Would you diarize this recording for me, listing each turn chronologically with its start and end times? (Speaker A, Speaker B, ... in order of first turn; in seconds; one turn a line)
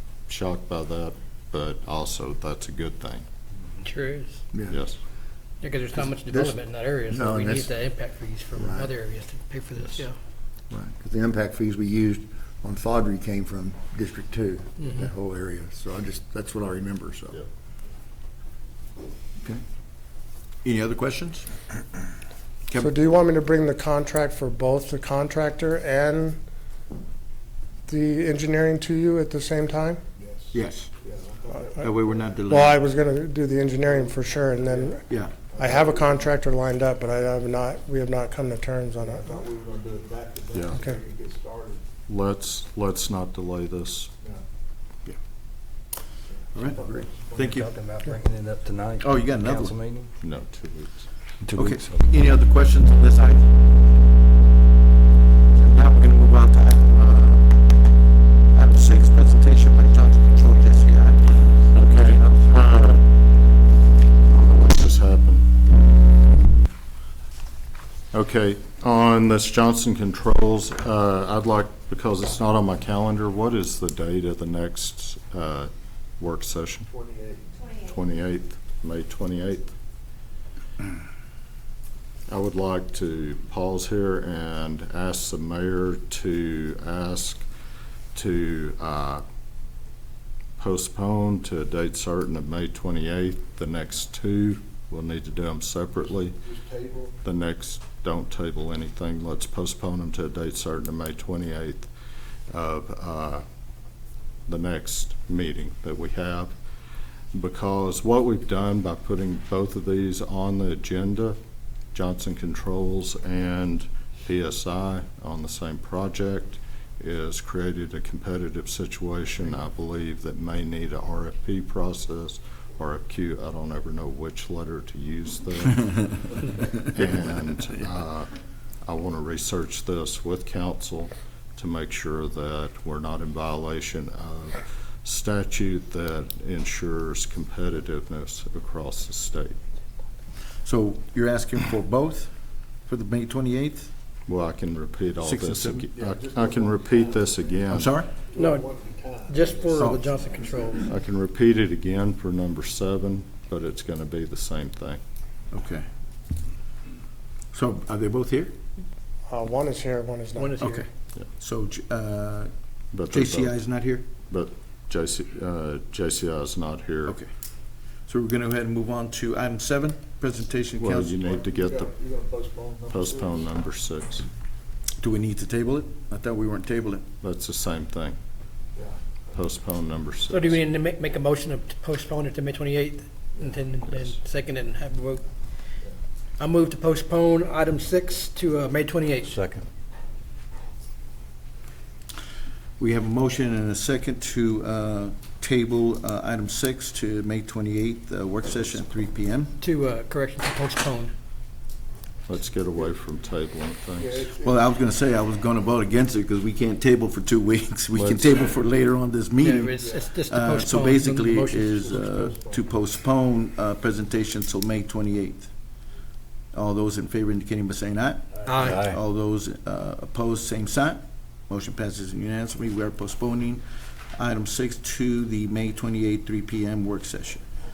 Speaker A: 0.3-3.2
Speaker B: 3.8-4.4
Speaker A: 4.7-5.0
Speaker B: 5.6-10.1
Speaker C: 6.0-6.6
Speaker C: 7.1-7.7
Speaker C: 8.5-8.9
Speaker C: 10.7-17.4
Speaker B: 14.8-15.1
Speaker D: 20.6-21.5
Speaker D: 22.7-23.0
Speaker E: 22.8-26.4
Speaker E: 27.9-30.0
Speaker F: 30.1-32.1
Speaker D: 30.5-30.9
Speaker E: 31.5-31.8
Speaker D: 31.8-32.8
Speaker E: 32.5-35.0
Speaker F: 33.9-36.3
Speaker E: 35.6-39.4
Speaker F: 39.0-41.8
Speaker A: 40.5-40.8
Speaker E: 40.7-41.0
Speaker A: 42.1-44.1
Speaker D: 46.5-47.7
Speaker F: 46.6-47.3
Speaker G: 47.3-50.1
Speaker D: 49.0-49.8
Speaker A: 50.2-51.1
Speaker G: 51.4-52.0
Speaker D: 51.5-53.5
Speaker D: 55.5-57.5
Speaker D: 58.5-61.6
Speaker A: 61.7-63.0
Speaker A: 64.3-65.5
Speaker A: 68.1-76.9
Speaker F: 76.9-77.5
Speaker A: 77.8-79.7
Speaker A: 82.3-87.4
Speaker A: 88.1-89.2
Speaker A: 90.6-96.3
Speaker F: 96.4-97.2
Speaker A: 97.2-101.9
Speaker A: 102.5-103.4
Speaker A: 104.5-106.5
Speaker A: 107.3-111.3
Speaker A: 111.9-128.3
Speaker A: 128.8-139.6
Speaker D: 140.6-142.3
Speaker D: 142.8-143.9
Speaker A: 144.3-147.9
Speaker D: 145.2-145.9
Speaker F: 145.9-147.4
Speaker D: 147.7-148.1
Speaker F: 148.2-150.8
Speaker B: 148.3-148.7
Speaker B: 149.3-150.9
Speaker D: 149.7-150.0
Speaker A: 150.8-155.0
Speaker D: 155.5-155.8
Speaker D: 157.5-158.5
Speaker E: 159.3-160.6
Speaker B: 160.4-160.9
Speaker D: 160.6-162.5
Speaker A: 162.9-163.5
Speaker D: 163.1-164.0
Speaker A: 164.3-167.2
Speaker D: 168.1-171.2
Speaker A: 170.8-171.9
Speaker F: 171.2-173.4
Speaker A: 172.9-174.2
Speaker D: 175.0-177.0
Speaker A: 177.2-178.2
Speaker F: 178.7-179.2
Speaker A: 179.3-180.6
Speaker B: 180.3-185.2
Speaker B: 186.4-189.4
Speaker D: 192.8-199.5
Speaker B: 199.6-201.1
Speaker A: 202.3-204.3
Speaker F: 203.9-204.7
Speaker D: 204.4-215.5
Speaker A: 207.9-208.4
Speaker B: 209.4-212.3
Speaker F: 209.7-210.1
Speaker F: 211.7-212.8
Speaker D: 216.5-223.6
Speaker B: 218.4-218.9
Speaker D: 224.1-227.4